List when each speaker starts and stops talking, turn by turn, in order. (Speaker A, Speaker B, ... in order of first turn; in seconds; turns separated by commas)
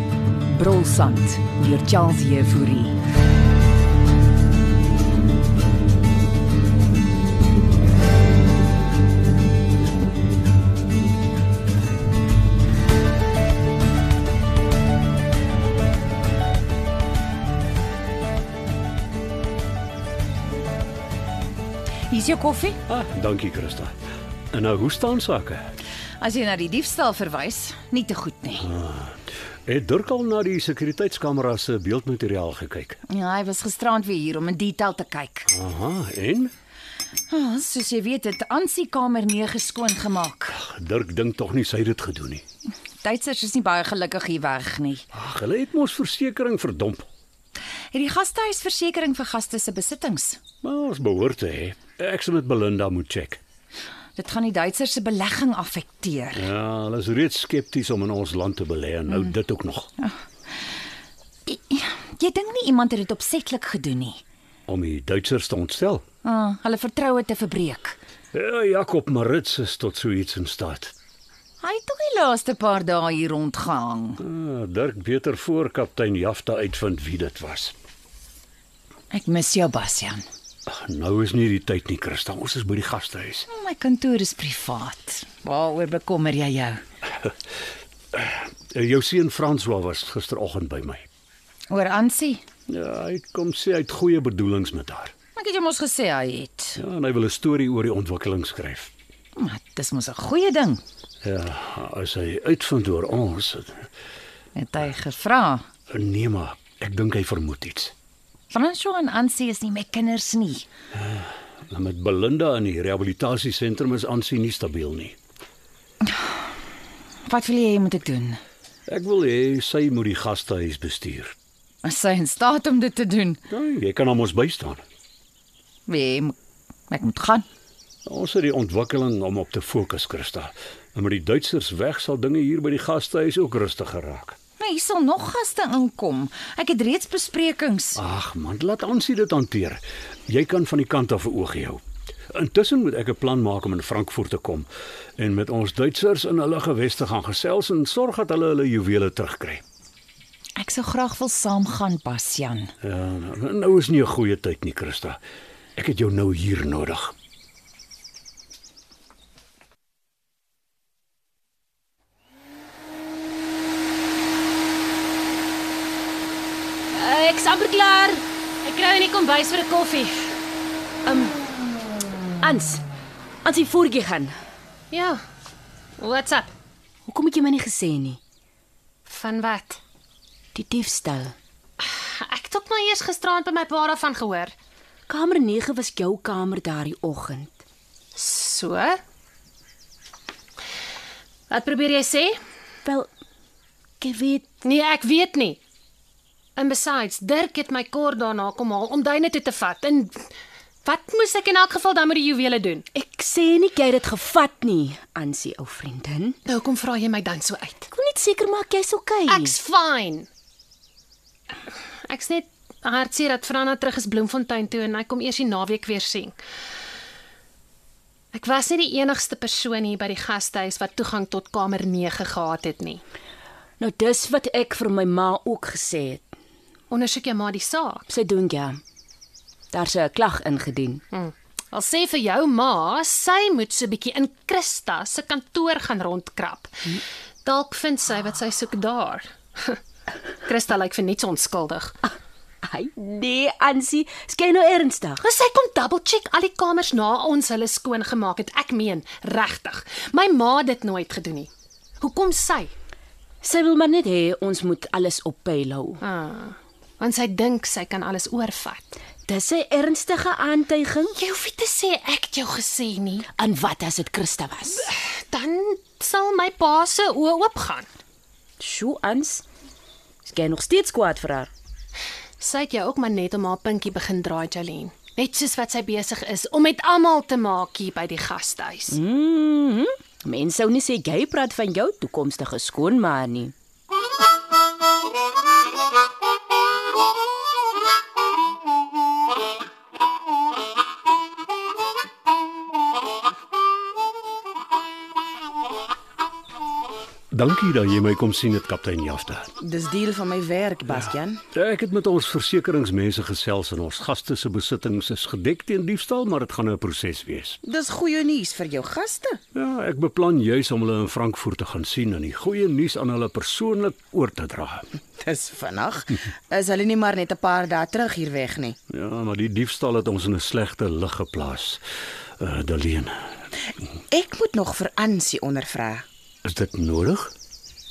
Speaker A: 0.5-2.9, Speaker B: 22.1-22.8, Speaker C: 22.9-23.9, Speaker C: 24.5-25.7, Speaker B: 26.2-28.7, Speaker C: 28.6-33.0, Speaker B: 33.1-35.5, Speaker C: 35.5-36.5, Speaker B: 37.3-40.5, Speaker C: 40.5-42.4, Speaker B: 43.0-45.0, Speaker C: 45.1-47.1, Speaker B: 47.9-50.4, Speaker C: 50.6-53.4, Speaker B: 54.1-56.5, Speaker C: 56.3-59.9, Speaker B: 61.5-64.2, Speaker C: 64.7-66.0, Speaker B: 66.2-68.0, Speaker C: 68.3-70.9, Speaker B: 71.6-74.2, Speaker C: 74.2-77.7, Speaker B: 79.1-80.2, Speaker C: 80.7-83.5, Speaker B: 83.5-86.8, Speaker C: 88.1-91.0, Speaker B: 91.7-92.4, Speaker C: 92.7-95.1, Speaker B: 95.3-96.8, Speaker C: 96.8-98.9, Speaker B: 99.4-100.8, Speaker C: 101.2-103.8, Speaker B: 104.5-105.6, Speaker C: 105.9-107.9, Speaker B: 108.5-110.7, Speaker C: 110.9-115.2, Speaker B: 117.2-118.4, Speaker C: 118.9-121.3, Speaker B: 121.8-123.4, Speaker C: 123.5-124.8, Speaker B: 125.9-126.3, Speaker B: 126.9-127.4, Speaker C: 128.1-134.4, Speaker B: 134.6-138.0, Speaker C: 137.9-141.8, Speaker C: 142.3-149.6, Speaker B: 150.6-152.7, Speaker C: 152.8-155.2, Speaker C: 155.8-157.1, Speaker D: 167.0-168.1, Speaker A: 167.8-170.1, Speaker D: 171.1-171.3, Speaker D: 172.4-172.8, Speaker D: 173.4-174.4, Speaker A: 174.9-175.2, Speaker A: 176.0-176.5, Speaker D: 177.1-178.2, Speaker A: 179.1-179.8, Speaker D: 180.5-181.3, Speaker A: 181.8-184.5, Speaker D: 185.1-187.6, Speaker A: 188.1-189.0, Speaker A: 191.5-192.3, Speaker D: 194.0-194.4, Speaker A: 194.6-195.6, Speaker A: 196.6-200.2, Speaker A: 200.8-202.8, Speaker D: 202.9-206.4, Speaker A: 206.4-207.9, Speaker D: 207.9-209.5, Speaker A: 209.3-210.3, Speaker A: 212.1-216.4, Speaker A: 218.3-223.0, Speaker D: 223.8-226.2, Speaker A: 226.9-228.0, Speaker D: 228.1-228.8, Speaker D: 229.7-231.0, Speaker A: 231.1-236.7, Speaker A: 237.4-239.8, Speaker A: 240.4-242.0, Speaker D: 242.6-245.2, Speaker A: 245.2-252.7, Speaker D: 253.4-256.0, Speaker A: 256.0-258.9, Speaker D: 259.2-261.1, Speaker A: 261.1-263.3, Speaker D: 263.4-264.9, Speaker A: 264.8-267.9, Speaker D: 268.6-269.4, Speaker D: 270.2-271.5, Speaker A: 272.4-279.0, Speaker D: 278.9-283.5, Speaker C: 297.3-299.5, Speaker E: 299.6-301.4, Speaker C: 301.5-307.6, Speaker E: 307.6-309.4, Speaker C: 309.5-314.9, Speaker E: 315.2-318.8, Speaker C: 318.9-321.8, Speaker C: 322.4-323.2, Speaker E: 324.1-326.0, Speaker C: 326.4-327.3